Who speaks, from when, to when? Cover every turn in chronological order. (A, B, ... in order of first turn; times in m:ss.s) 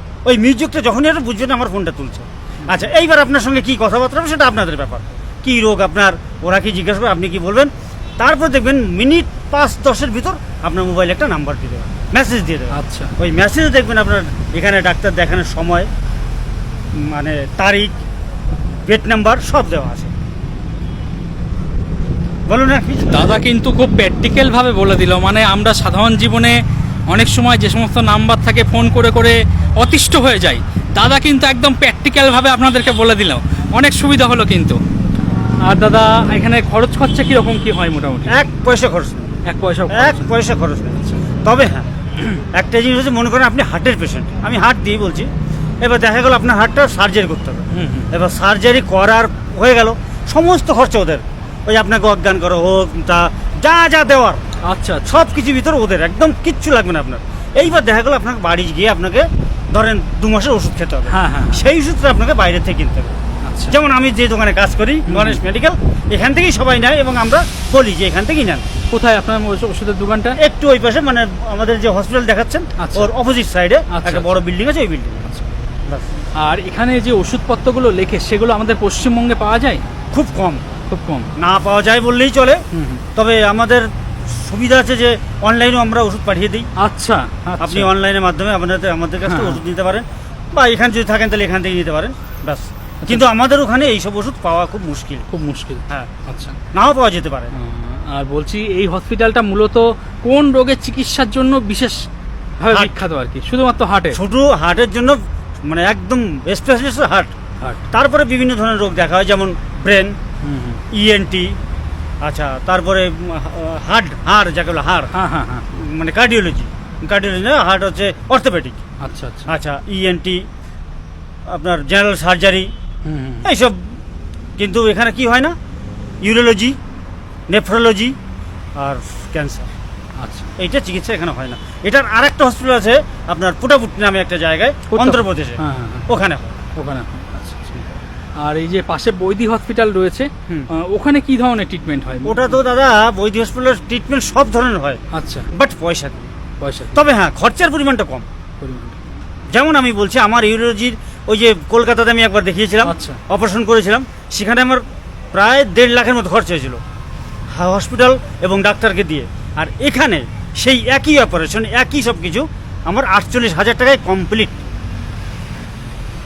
0:00.2-0:15.9 A
0:12.7-0:13.1 B
0:17.0-0:18.0 A
0:18.9-0:20.1 A
0:22.5-0:23.4 A
0:23.1-0:26.6 B
0:27.1-0:34.8 B
0:35.6-0:38.4 B
0:38.3-0:39.3 A
0:39.4-0:40.3 B
0:39.9-0:45.3 A
0:45.8-0:54.4 A
0:47.7-0:48.1 B
0:54.6-0:55.2 B
0:55.0-1:03.2 A
1:01.1-1:01.6 B
1:03.4-1:03.8 B
1:03.7-1:08.6 A
1:05.1-1:05.4 B
1:08.9-1:10.4 B
1:10.4-1:15.3 A
1:12.8-1:13.1 B
1:13.9-1:14.3 B
1:16.4-1:19.8 B
1:20.1-1:20.6 A
1:20.9-1:21.3 B
1:21.4-1:22.6 A
1:22.7-1:23.0 B
1:23.1-1:26.7 A
1:26.8-1:27.9 B
1:27.6-1:35.2 A
1:29.2-1:29.6 B
1:35.3-1:36.6 B
1:36.7-1:37.5 A
1:37.5-1:42.1 B
1:42.6-1:44.2 B
1:44.1-1:47.3 A
1:47.9-1:50.2 A
1:50.4-1:50.8 B
1:50.9-1:51.6 A
1:52.2-1:55.1 A
1:55.1-1:55.6 B
1:55.7-1:58.8 A
1:59.0-1:59.5 B
1:59.5-2:00.4 A
2:01.5-2:02.7 A
2:03.0-2:03.5 B
2:03.4-2:03.9 A
2:04.6-2:05.5 A
2:06.2-2:06.8 A
2:07.5-2:08.2 A
2:08.8-2:09.7 A
2:10.2-2:10.5 B
2:10.6-2:16.6 A
2:14.9-2:16.1 B
2:16.8-2:17.8 B
2:18.4-2:22.6 B
2:22.2-2:26.3 A
2:25.1-2:25.5 B
2:26.6-2:27.0 B
2:26.9-2:28.2 A
2:28.6-2:29.0 B
2:29.5-2:36.8 A
2:32.8-2:33.2 B
2:37.5-2:44.6 A